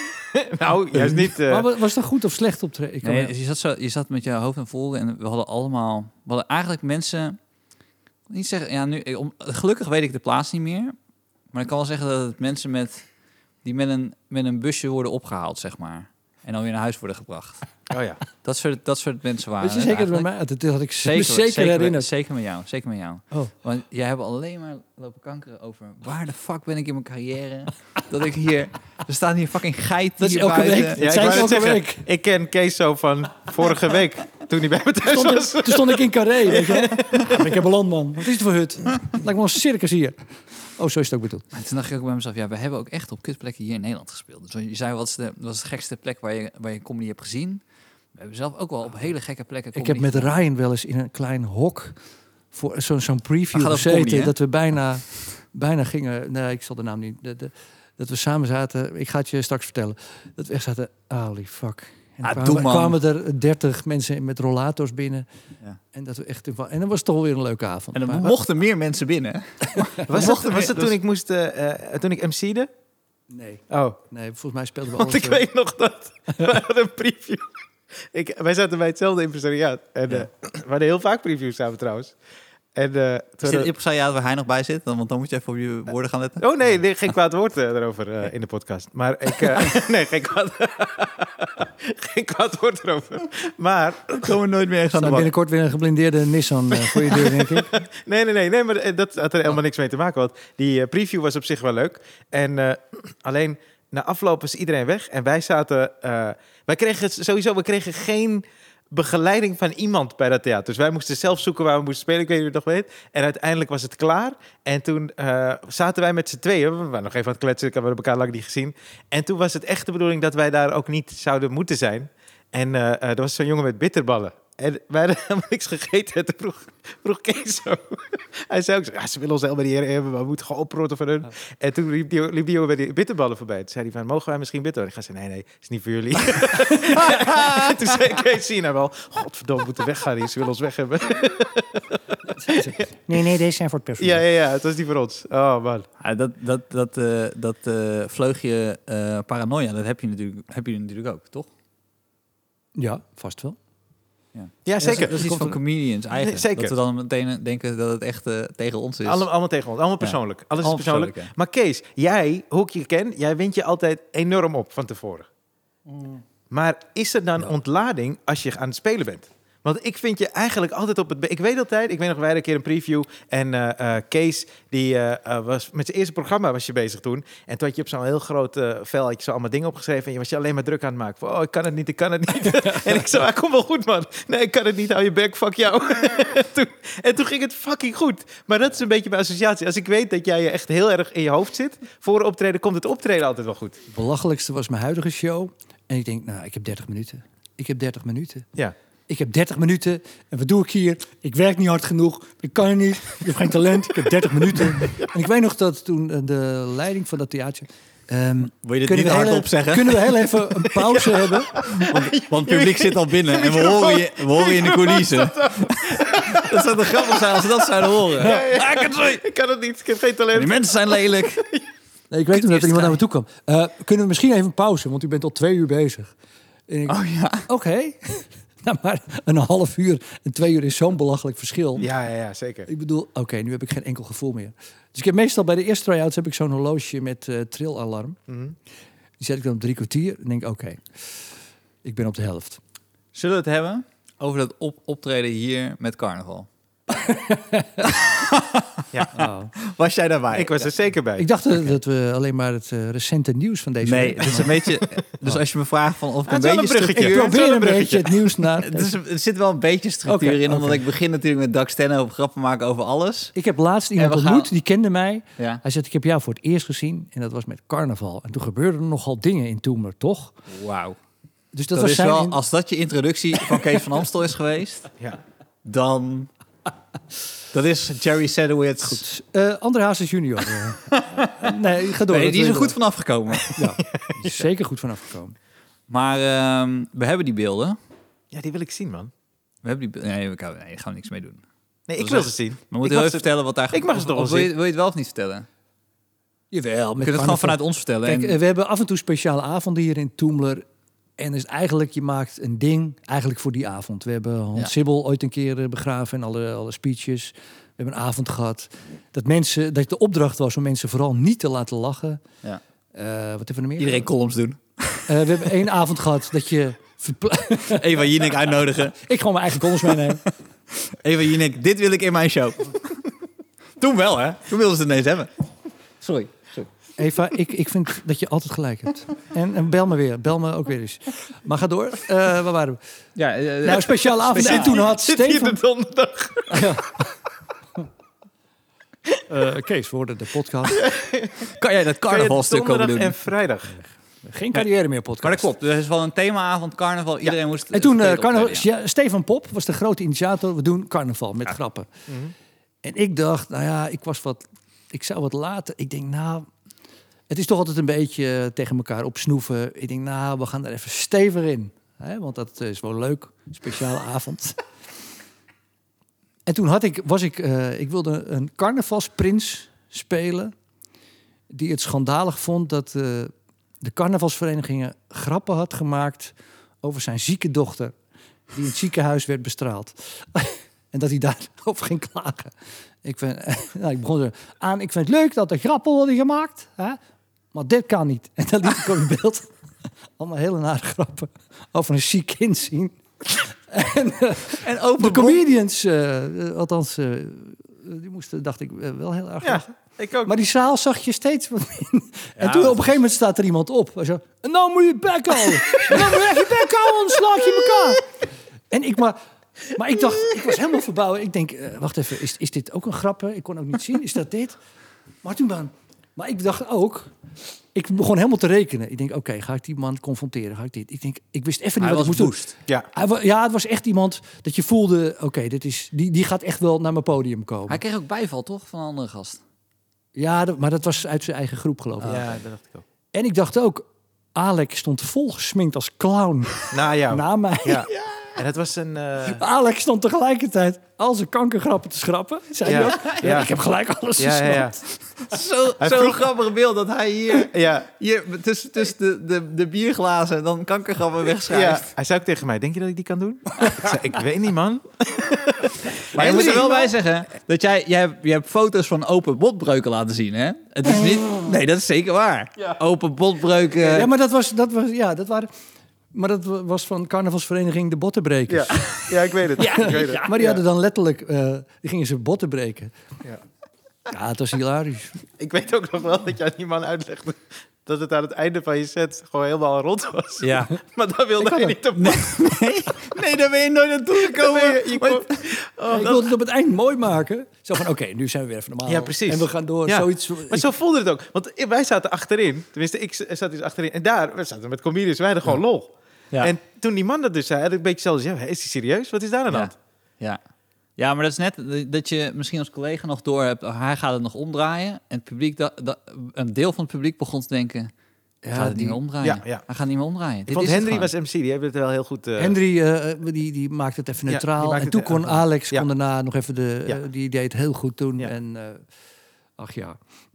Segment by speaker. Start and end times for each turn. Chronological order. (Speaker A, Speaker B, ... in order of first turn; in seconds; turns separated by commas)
Speaker A: 0.3-1.7, Speaker B: 1.3-3.3, Speaker C: 3.0-7.4, Speaker C: 8.3-10.9, Speaker C: 11.5-13.0, Speaker C: 13.6-17.6, Speaker A: 17.9-18.2, Speaker C: 18.4-20.3, Speaker B: 19.6-22.1, Speaker C: 21.0-31.5, Speaker B: 30.2-32.0, Speaker A: 31.0-37.5, Speaker B: 35.0-41.4, Speaker C: 41.5-47.6, Speaker C: 48.1-50.4, Speaker B: 49.7-52.0, Speaker B: 52.5-65.2, Speaker C: 53.5-54.3, Speaker C: 62.2-63.0, Speaker B: 65.9-68.3, Speaker C: 67.9-71.0, Speaker B: 69.7-70.0, Speaker A: 70.1-72.7, Speaker B: 73.3-75.4, Speaker A: 73.7-74.0, Speaker A: 74.9-77.5, Speaker A: 78.0-82.1, Speaker A: 82.7-83.7, Speaker C: 83.4-86.4, Speaker A: 86.4-94.3, Speaker C: 94.1-95.3, Speaker B: 95.0-97.8, Speaker A: 96.7-142.8, Speaker B: 142.3-144.2, Speaker A: 144.0-145.9, Speaker C: 146.0-151.5, Speaker B: 152.8-153.6, Speaker C: 154.3-159.3, Speaker A: 154.6-155.2, Speaker B: 154.8-155.6, Speaker A: 156.1-156.8, Speaker A: 159.0-165.3, Speaker C: 160.0-161.3, Speaker A: 166.5-193.8, Speaker B: 193.9-198.5, Speaker B: 199.1-211.5, Speaker C: 208.6-210.3, Speaker A: 210.8-221.6, Speaker C: 211.7-219.2, Speaker C: 220.3-221.5, Speaker B: 222.1-226.1, Speaker C: 222.3-223.0, Speaker B: 226.7-231.9, Speaker C: 226.9-227.4, Speaker A: 231.8-232.7, Speaker B: 232.7-238.2, Speaker A: 238.3-238.6, Speaker B: 239.2-241.3, Speaker B: 241.8-242.6, Speaker C: 243.1-246.5, Speaker B: 246.9-248.0, Speaker C: 247.8-250.7, Speaker B: 249.1-249.5, Speaker A: 250.3-251.3, Speaker B: 251.2-254.7, Speaker C: 253.8-257.4, Speaker A: 256.3-258.2, Speaker B: 256.9-258.9, Speaker C: 258.6-263.3, Speaker B: 260.1-260.8, Speaker B: 263.3-270.3, Speaker C: 264.0-264.5, Speaker C: 270.5-271.0, Speaker B: 271.5-272.4, Speaker C: 271.7-274.9, Speaker C: 275.6-276.3, Speaker C: 277.5-279.0, Speaker B: 278.8-282.8, Speaker C: 280.9-281.5, Speaker C: 282.1-283.7, Speaker B: 283.5-285.4, Speaker A: 283.9-284.4, Speaker C: 285.9-287.8, Speaker A: 288.3-289.1, Speaker C: 289.6-291.4, Speaker A: 291.9-294.5, Speaker C: 292.0-295.4, Speaker B: 296.5-300.6, Speaker C: 297.0-298.4, Speaker B: 301.2-312.2, Speaker B: 312.9-314.1, Speaker C: 313.8-315.4, Speaker B: 315.1-317.9, Speaker C: 317.7-319.0, Speaker B: 319.0-320.2, Speaker C: 319.6-323.1, Speaker C: 323.8-325.3, Speaker C: 326.0-326.7, Speaker B: 327.0-332.8, Speaker C: 333.1-334.8, Speaker B: 333.6-335.6, Speaker A: 334.3-336.7, Speaker B: 336.5-337.1, Speaker B: 339.3-340.9, Speaker A: 340.8-341.5, Speaker C: 341.5-343.1, Speaker A: 342.0-343.8, Speaker B: 344.2-345.5, Speaker C: 345.2-348.6, Speaker B: 347.7-351.9, Speaker A: 352.1-352.3, Speaker B: 352.8-356.5, Speaker B: 357.3-364.6, Speaker B: 366.5-370.5, Speaker B: 371.5-377.9, Speaker B: 378.5-387.0, Speaker B: 387.5-389.5, Speaker B: 390.2-399.6, Speaker C: 394.6-395.4, Speaker A: 399.4-400.3, Speaker B: 400.2-408.1, Speaker C: 402.4-402.8, Speaker B: 408.7-414.6, Speaker B: 415.2-417.1, Speaker B: 417.7-427.8, Speaker C: 421.8-422.5, Speaker C: 427.7-429.4, Speaker B: 430.1-432.2, Speaker C: 432.0-432.3, Speaker A: 432.0-432.8, Speaker B: 433.1-437.9, Speaker A: 436.7-439.4, Speaker B: 439.2-444.8, Speaker A: 442.6-443.5, Speaker C: 442.6-443.4, Speaker A: 444.2-444.8, Speaker C: 445.3-451.9, Speaker A: 445.8-446.3, Speaker A: 447.3-447.9, Speaker A: 451.5-456.9, Speaker C: 456.1-464.1, Speaker B: 456.2-456.6, Speaker B: 463.8-465.5, Speaker B: 466.1-469.0, Speaker A: 468.5-470.6, Speaker B: 469.6-472.9, Speaker C: 469.8-470.1, Speaker B: 474.1-475.2, Speaker A: 475.4-482.3, Speaker C: 480.4-480.7, Speaker B: 481.4-481.7, Speaker C: 481.9-485.4, Speaker A: 484.2-486.3, Speaker B: 485.9-490.7, Speaker A: 488.9-499.7, Speaker C: 499.5-500.4, Speaker C: 501.0-507.9, Speaker B: 508.4-509.0, Speaker C: 508.5-511.1, Speaker A: 509.2-509.6, Speaker A: 510.5-512.6, Speaker B: 512.4-518.9, Speaker A: 514.3-515.9, Speaker B: 519.6-520.0